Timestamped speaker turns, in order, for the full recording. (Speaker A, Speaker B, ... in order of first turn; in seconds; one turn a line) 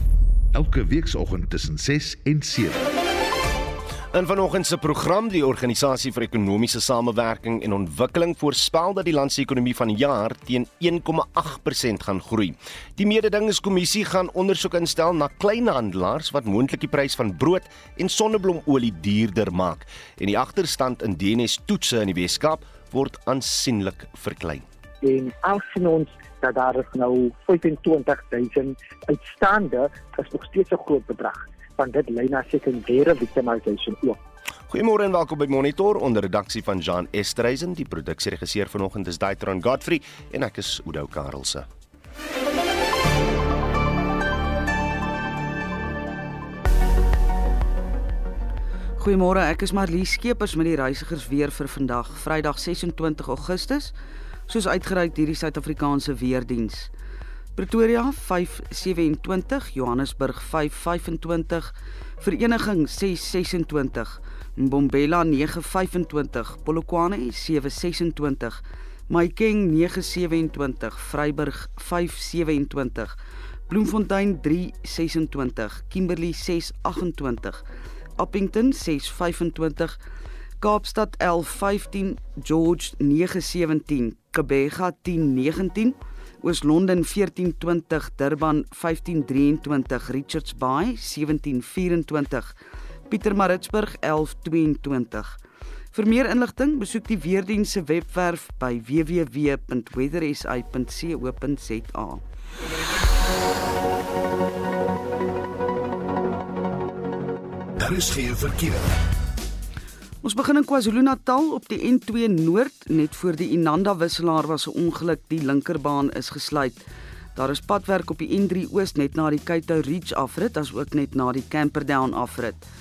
Speaker A: 0.5-2.9
Speaker B: 4.1-24.7
Speaker C: 25.0-34.2
Speaker B: 34.7-41.7
Speaker D: 49.0-54.0
Speaker D: 54.5-56.9
Speaker D: 57.6-73.2
Speaker D: 73.7-77.6
Speaker D: 78.2-80.0
Speaker D: 80.6-92.5
Speaker D: 93.1-95.4
Speaker D: 95.9-102.2
Speaker A: 107.8-108.9
Speaker D: 110.2-116.8
Speaker D: 117.4-122.7